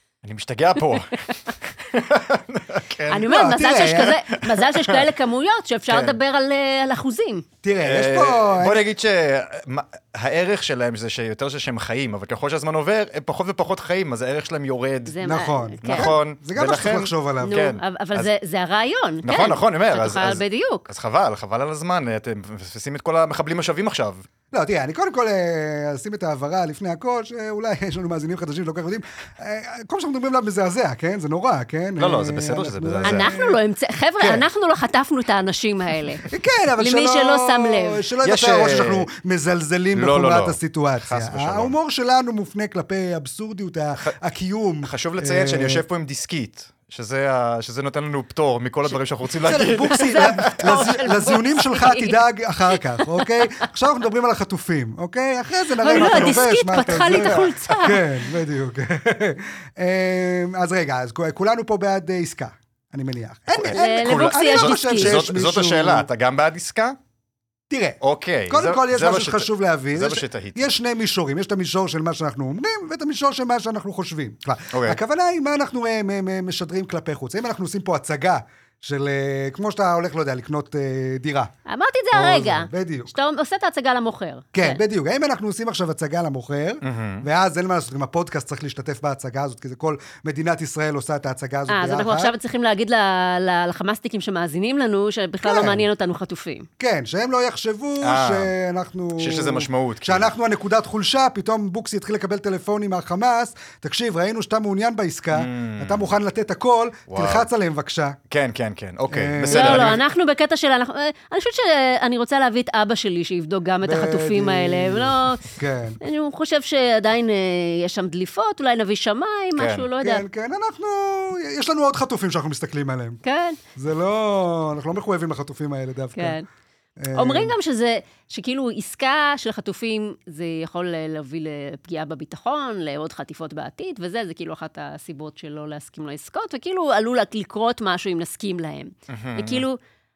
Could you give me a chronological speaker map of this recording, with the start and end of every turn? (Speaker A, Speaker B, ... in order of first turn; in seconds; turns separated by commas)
Speaker A: 0.2-3.3, Speaker B: 3.1-7.4, Speaker C: 3.3-4.2, Speaker A: 4.4-5.0, Speaker A: 5.9-6.2, Speaker C: 7.6-8.8, Speaker A: 7.8-15.1, Speaker B: 15.1-16.1, Speaker C: 15.2-17.6, Speaker A: 15.8-18.3, Speaker B: 17.4-20.9, Speaker A: 19.2-24.2, Speaker C: 24.5-33.6, Speaker A: 32.0-33.3, Speaker B: 33.0-36.2, Speaker C: 36.3-45.8, Speaker B: 36.8-38.0, Speaker A: 38.2-39.1, Speaker A: 39.9-41.8, Speaker A: 44.8-50.6, Speaker C: 49.4-66.1, Speaker B: 49.8-52.2, Speaker B: 55.8-58.0, Speaker A: 56.0-56.3, Speaker A: 63.6-67.0, Speaker B: 63.7-65.2, Speaker C: 67.7-81.5, Speaker A: 68.0-70.7, Speaker A: 74.7-75.0, Speaker B: 81.7-84.8, Speaker C: 82.1-83.1, Speaker C: 84.5-92.3, Speaker A: 86.8-87.3, Speaker B: 91.7-96.7, Speaker C: 95.4-95.8, Speaker C: 96.8-108.2, Speaker A: 98.0-98.5, Speaker A: 99.2-100.3, Speaker A: 105.3-106.1, Speaker A: 107.1-107.5, Speaker A: 108.3-110.0, Speaker C: 109.1-110.0, Speaker B: 109.5-120.2, Speaker C: 113.8-116.0, Speaker A: 119.6-119.9, Speaker C: 120.0-123.2, Speaker B: 123.2-123.6, Speaker C: 123.8-126.4, Speaker B: 126.2-126.5, Speaker C: 127.0-127.5, Speaker B: 127.1-139.8, Speaker A: 139.1-139.6